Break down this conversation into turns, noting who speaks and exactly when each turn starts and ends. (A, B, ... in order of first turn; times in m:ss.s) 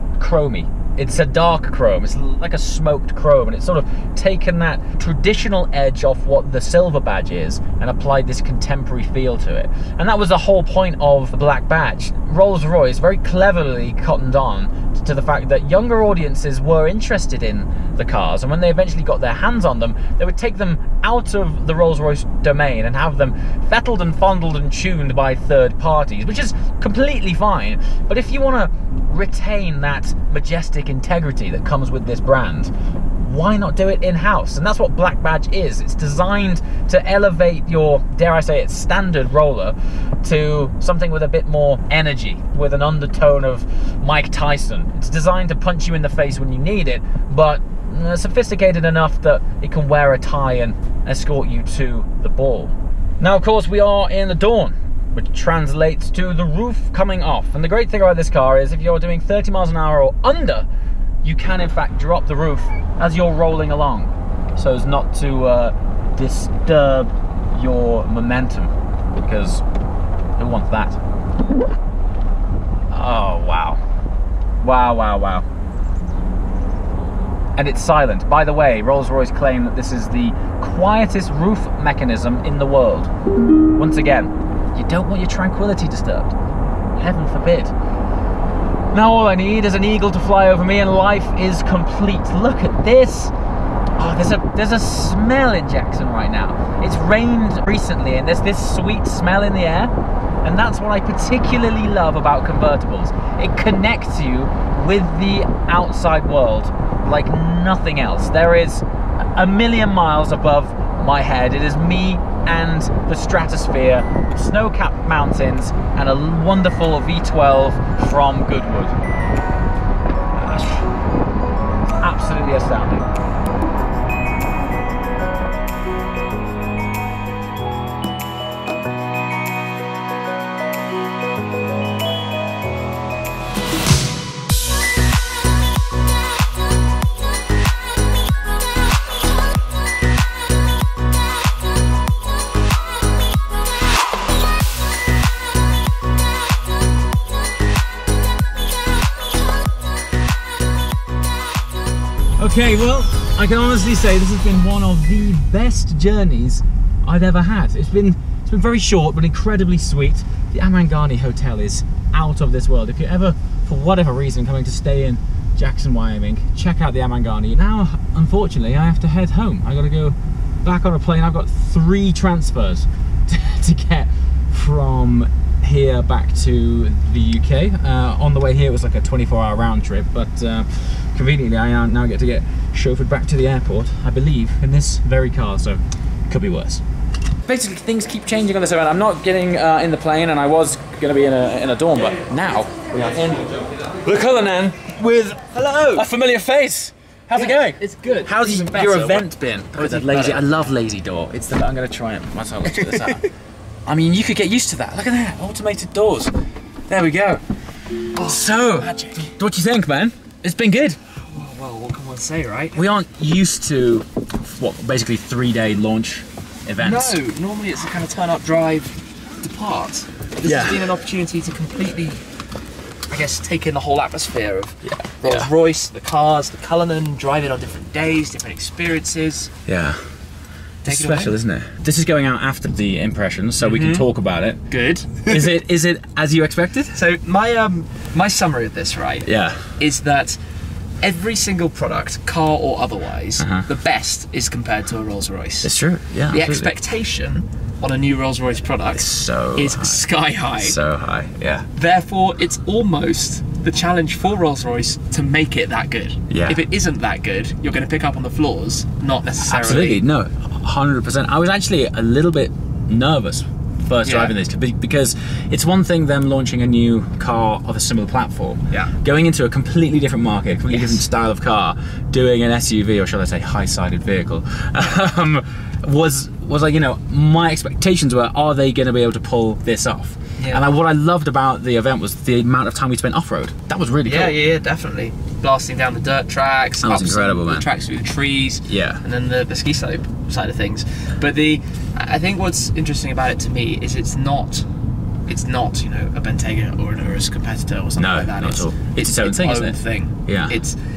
0:00.2-1:00.7 A
1:01.2-1:09.6 A
1:10.4-1:11.0 A
1:12.9-1:13.8 A
1:14.6-1:15.4 A
1:17.6-1:23.1 A
1:23.8-1:26.3 A
1:26.9-1:27.7 A
1:28.9-1:33.3 A
1:34.0-1:39.9 A
1:40.4-1:59.0 A
2:00.4-2:00.9 A
2:02.0-2:03.1 A
2:32.4-3:06.8 A
3:07.4-3:13.4 A
3:14.0-3:23.3 A
3:15.4-3:16.0 B
3:17.3-3:20.5 B
3:22.7-3:23.2 B
3:23.8-3:26.3 A
3:26.9-3:27.4 A
3:28.2-3:29.3 B
3:28.2-3:31.0 A
3:31.3-3:32.8 B
3:32.8-3:37.2 A
3:36.8-3:42.2 B
3:40.4-3:40.8 A
3:43.1-3:49.5 B
3:44.8-3:45.5 A
3:49.6-3:50.0 A
3:50.8-3:51.4 B
3:50.9-3:54.6 A
3:53.6-3:54.0 B
3:54.7-3:55.5 B
3:55.2-3:57.0 A
3:56.9-3:59.3 B
3:59.2-3:59.7 A
3:59.8-4:00.4 B
4:01.0-4:05.7 B
4:03.4-4:03.7 A
4:05.6-4:06.7 A
4:06.3-4:09.0 B
4:08.9-4:10.0 A
4:09.6-4:10.8 B
4:10.6-4:11.7 A
4:11.8-4:20.0 B
4:16.3-4:16.6 A
4:19.4-4:44.4 A
4:24.0-4:24.3 B
4:30.7-4:31.0 B
4:40.4-4:40.6 B
4:44.0-4:54.6 B
4:46.8-4:47.7 A
4:48.7-4:49.0 A
4:55.2-5:00.8 B
4:58.0-5:00.6 A